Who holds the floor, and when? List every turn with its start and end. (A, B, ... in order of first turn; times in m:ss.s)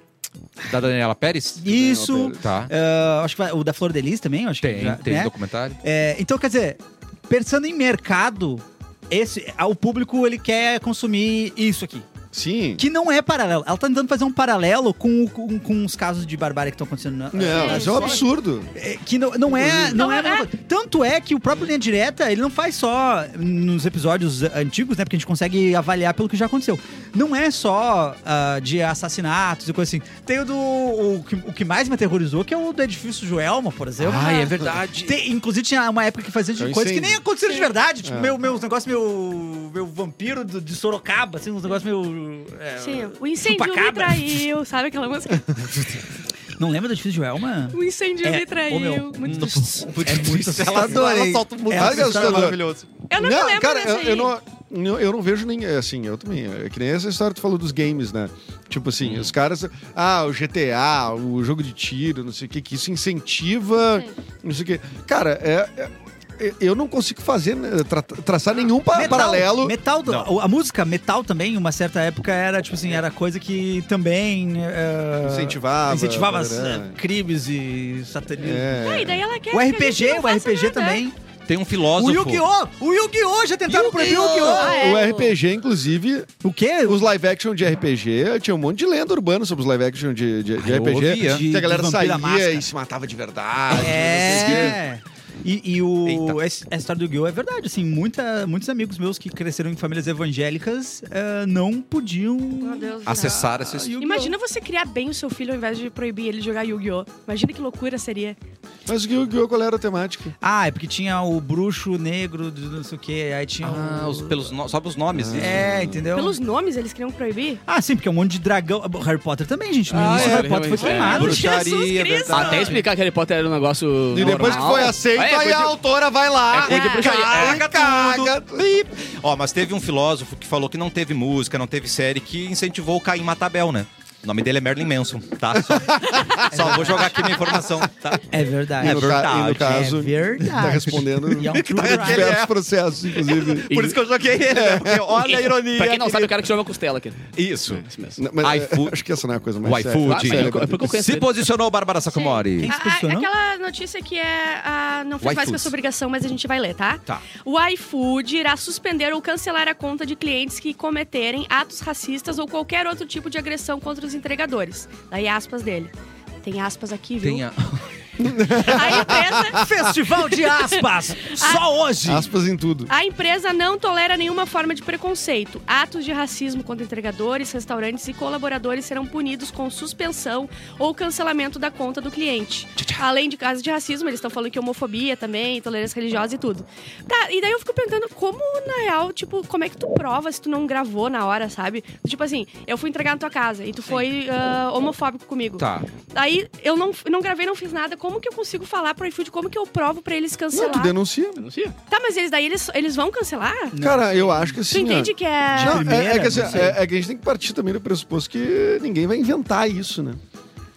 0:00.7-0:01.6 A
0:01.6-0:12.1 B
0:01.7-0:02.4 C
0:02.4-0:02.7 A
0:04.6-0:05.8 A
0:12.3-0:12.8 C
0:12.8-0:18.2 B
0:17.3-0:18.7 C
0:17.6-0:18.2 D
0:18.7-0:44.5 B
0:19.5-0:20.0 C
0:20.0-0:20.5 D
0:34.0-0:35.2 A
0:36.6-0:37.2 C
0:38.0-0:38.4 C
0:42.8-0:45.7 D
0:46.6-0:52.6 B
0:47.7-0:49.9 D
0:49.2-0:53.0 A
0:51.7-1:09.8 C
0:53.1-0:54.3 D
0:59.0-0:59.3 A
1:08.9-1:18.7 B
1:15.2-1:17.0 C
1:18.4-1:19.2 C
1:18.8-1:21.0 D
1:19.5-1:21.1 B
1:21.5-1:22.4 A
1:21.9-1:24.8 B
1:23.7-1:24.6 A
1:24.0-1:26.3 C
1:24.5-1:25.4 D
1:26.4-1:27.0 B
1:26.8-1:34.8 C
1:30.6-1:31.4 A
1:31.2-1:32.7 B
1:33.8-1:44.4 B
1:34.0-1:34.7 A
1:36.0-1:36.4 A
1:42.6-1:48.4 D
1:43.0-1:44.0 A
1:48.9-1:50.4 C
1:50.4-1:54.5 B
1:53.6-1:55.6 A
1:55.1-1:56.0 C
1:55.3-1:56.4 B
1:56.1-1:57.6 D
1:57.6-2:01.5 B
1:59.9-2:01.4 E
1:59.9-2:02.9 A
2:00.8-2:02.8 D
2:02.3-2:05.8 E
2:04.1-2:08.6 C
2:04.3-2:04.9 D
2:06.5-2:07.6 E
2:06.6-2:07.2 D
2:07.0-2:18.2 A
2:15.7-2:16.4 C
2:16.5-2:17.5 B
2:18.3-2:22.4 B
2:18.8-2:19.9 A
2:18.8-2:23.7 C
2:21.4-2:22.6 A
2:23.2-2:26.4 A
2:23.7-2:24.0 E
2:24.5-2:25.1 C
2:25.2-2:28.2 E
2:27.4-2:27.8 A
2:28.2-2:30.8 C
2:28.4-2:29.0 A
2:29.6-2:32.7 A
2:30.0-2:31.5 E
2:32.1-2:47.4 D
2:32.6-2:33.3 B
2:35.2-2:35.7 A
2:47.2-2:47.8 A
2:48.2-2:49.8 C
2:48.6-2:49.6 D
2:49.6-2:52.3 B
2:50.3-2:51.6 D
2:52.0-2:52.9 C
2:52.9-3:20.9 D
3:15.6-3:15.9 A
3:20.5-3:21.4 C
3:21.4-3:21.7 E
3:21.9-3:23.7 D
3:23.7-3:24.6 B
3:23.8-3:30.2 C
3:24.7-3:26.0 D
3:25.5-3:26.8 B